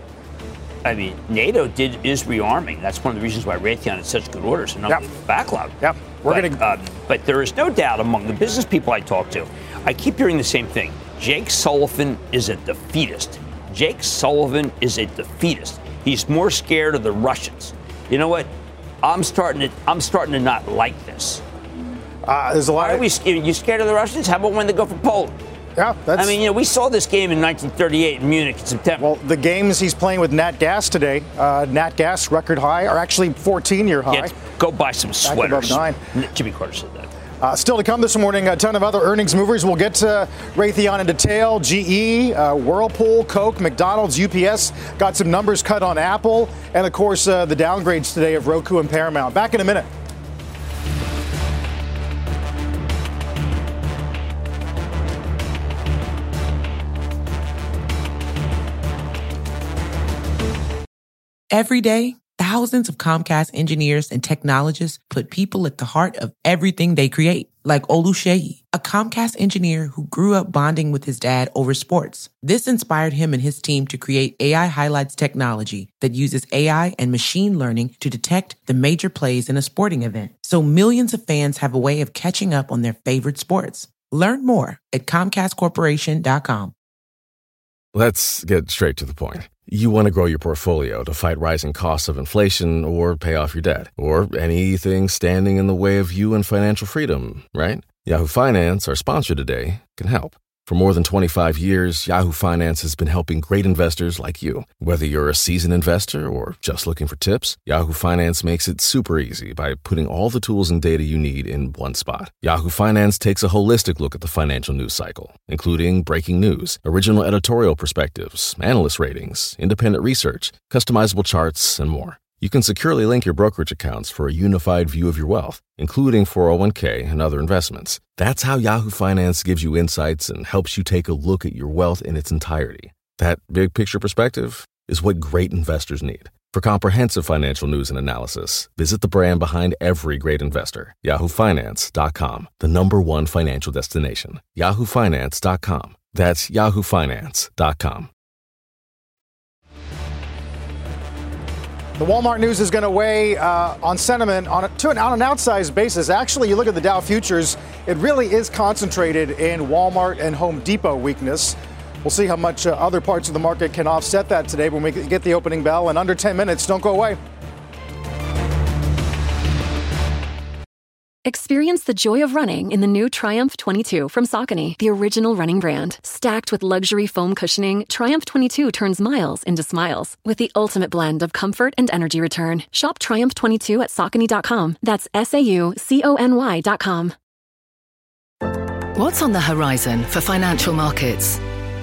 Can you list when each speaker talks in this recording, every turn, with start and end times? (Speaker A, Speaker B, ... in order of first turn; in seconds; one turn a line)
Speaker A: 0.8-18.5
Speaker B: 5.8-6.6
Speaker A: 19.0-21.4
Speaker B: 22.2-23.1
Speaker A: 22.8-25.4
Speaker B: 25.8-26.4
Speaker A: 26.1-29.1
Speaker B: 29.0-34.3
Speaker A: 34.1-37.1
Speaker B: 35.3-36.0
Speaker B: 37.4-49.9
Speaker C: 61.5-86.7
Speaker D: 87.9-148.1
Speaker B: 152.0-167.2
Speaker E: 171.2-187.2
Speaker F: 188.9-191.4